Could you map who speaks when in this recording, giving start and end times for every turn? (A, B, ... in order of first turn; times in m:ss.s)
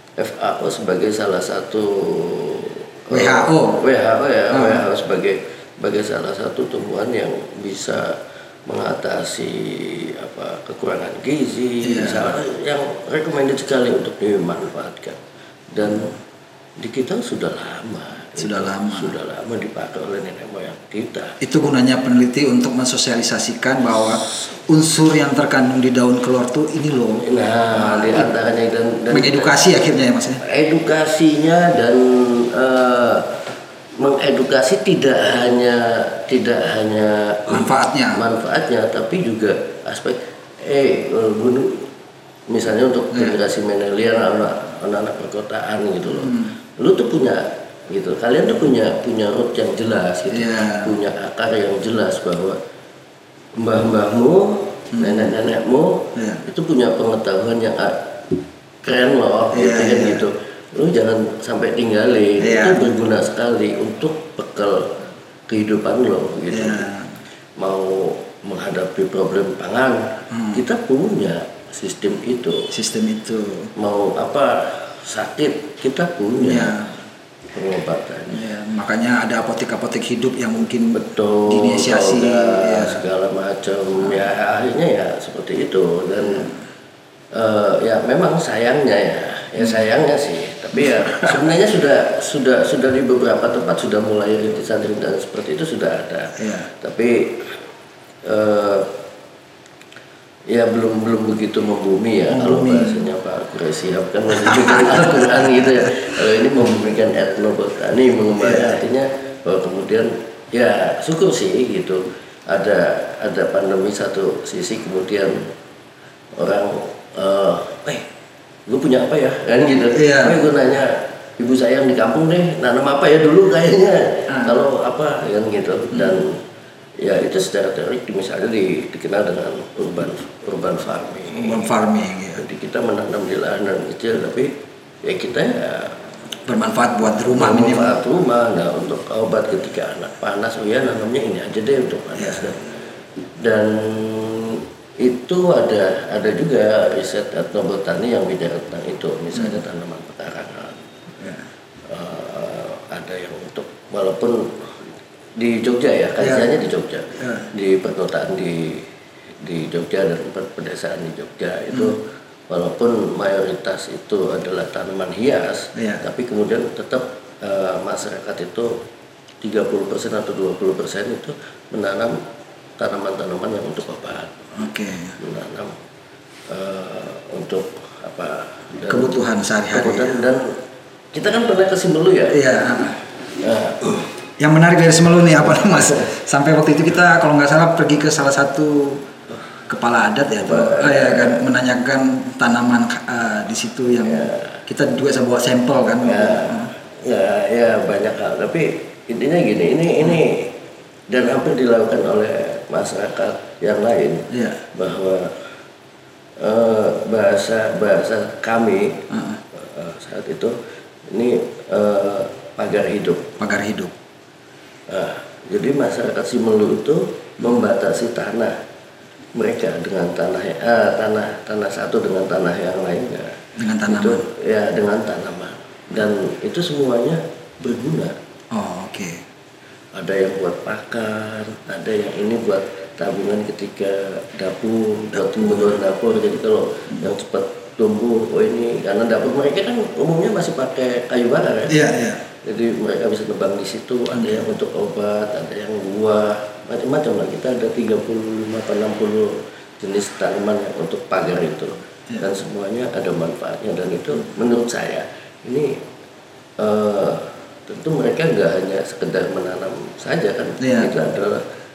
0:00.2-0:15.2 A
0:03.1-0:03.8 B
0:04.5-0:04.8 B
0:11.8-0:12.3 B
0:15.7-0:16.2 A
0:16.8-0:21.4 A
0:18.4-0:19.2 B
0:21.4-0:28.3 B
0:27.2-0:29.6 A
0:29.1-0:30.4 B
0:30.4-0:33.4 A
0:34.0-0:41.9 A
0:37.5-0:38.2 B
0:42.5-0:52.6 A
0:46.1-0:46.5 B
0:50.3-0:50.9 B
0:53.6-0:58.3 A
0:55.0-0:55.3 B
0:56.2-0:56.4 B
0:58.8-1:05.0 A
0:59.5-1:00.2 B
1:02.4-1:02.9 B
1:05.5-1:06.9 A
1:06.5-1:07.2 B
1:07.6-1:12.7 A
1:10.3-1:10.6 B
1:12.7-1:13.7 B
1:13.8-1:16.7 A
1:16.4-1:16.9 B
1:17.5-1:18.4 A
1:18.3-1:23.0 B
1:20.9-1:26.5 A
1:27.3-1:37.6 A
1:30.8-1:31.4 B
1:36.4-1:36.7 B
1:38.2-1:38.9 A
1:40.5-1:55.5 A
1:42.3-1:43.0 B
1:44.4-1:45.9 B
1:48.4-1:48.8 B
1:56.4-1:58.1 A
1:58.7-2:06.4 A
1:59.9-2:00.4 B
2:04.3-2:04.6 B
2:05.9-2:06.2 B
2:07.0-2:11.7 A
2:11.3-2:12.4 B
2:12.3-2:14.5 A
2:15.0-2:16.0 A
2:16.4-2:18.0 B
2:17.3-2:22.7 A
2:23.4-2:30.8 A
2:31.2-2:31.4 B
2:31.9-2:34.8 A
2:35.4-2:38.8 A
2:36.2-2:36.5 B
2:37.2-2:37.5 B
2:39.4-2:48.8 A
2:45.7-2:46.0 B
2:49.4-2:52.2 A
2:52.8-2:54.5 A
2:54.5-2:55.2 B
2:55.2-2:55.8 A
2:56.5-2:59.1 A
2:58.9-3:00.2 B
2:59.7-3:00.6 A
3:01.1-3:02.5 A
3:02.3-3:03.0 B
3:03.4-3:04.0 A
3:04.4-3:09.0 B
3:05.4-3:06.1 A
3:09.7-3:16.7 B
3:10.4-3:11.5 A
3:14.0-3:14.6 A
3:16.0-3:20.5 A
3:21.1-3:25.4 A
3:26.4-3:30.6 A
3:29.1-3:29.4 B
3:31.1-3:33.3 A
3:33.4-3:33.9 B
3:34.9-3:38.5 A
3:39.3-3:48.1 A
3:43.6-3:44.2 B
3:48.5-3:49.2 B
3:49.9-4:01.8 A
3:55.2-3:55.8 B
4:01.7-4:02.2 B
4:02.4-4:15.8 A
4:04.1-4:04.5 B
4:16.6-4:21.4 A
4:20.6-4:20.9 B